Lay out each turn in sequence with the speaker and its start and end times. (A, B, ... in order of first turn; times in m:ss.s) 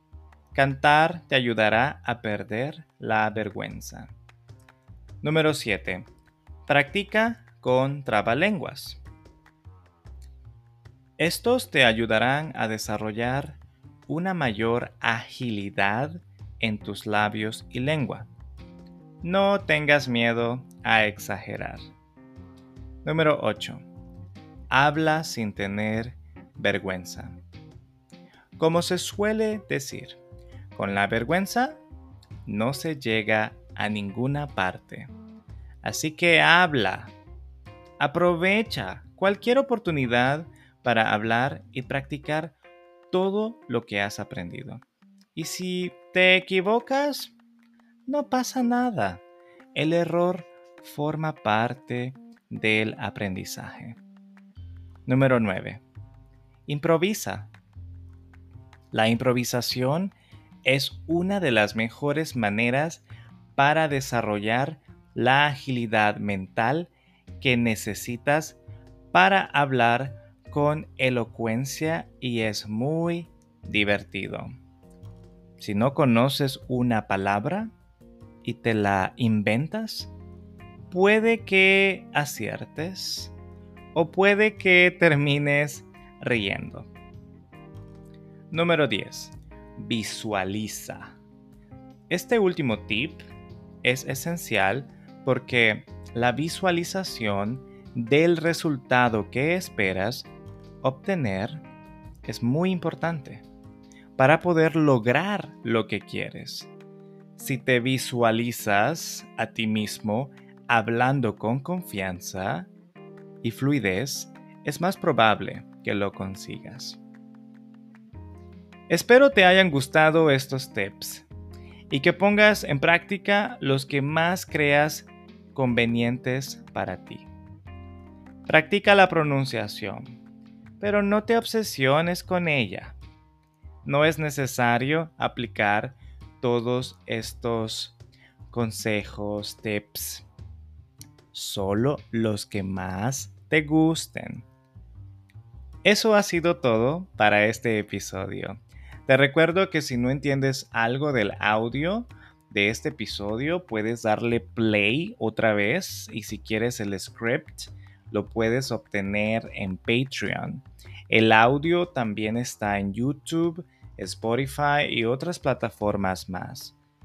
0:00.5-0:04.1 A
0:05.2-0:06.1 A
0:06.7-0:09.0 A
0:11.2-0:18.3 A
0:19.2-0:21.9 A
0:23.0-0:23.8 A
0:24.7-0:27.4 A
0:28.6-0:30.2 A
0:30.7-0:31.8 A
0:32.4-0:35.1 A
0:35.8-0:37.1 A
0:38.0-0:42.5 A
0:43.1-0:44.8 A
0:45.3-0:47.3 A
0:48.1-0:49.2 A
0:49.7-0:54.0 A
0:55.0-0:55.8 A
0:56.7-0:57.5 A
0:58.9-1:03.0 A
1:03.6-1:08.6 A
1:09.1-1:14.5 A
1:15.6-1:17.7 A
1:18.4-1:20.1 A
1:20.9-1:23.3 A
1:23.9-1:26.9 A
1:28.5-1:31.2 A
1:32.1-1:33.2 A
1:33.8-1:40.3 A
1:40.8-1:41.6 A
1:42.2-1:43.4 A
1:44.2-1:46.7 A
1:47.4-1:52.7 A
1:53.4-1:57.0 A
1:58.9-2:01.3 A
2:01.9-2:07.3 A
2:08.5-2:10.2 A
2:10.8-2:13.0 A
2:13.8-2:18.0 A
2:18.5-2:20.3 A
2:21.3-2:24.5 A
2:25.8-2:46.8 A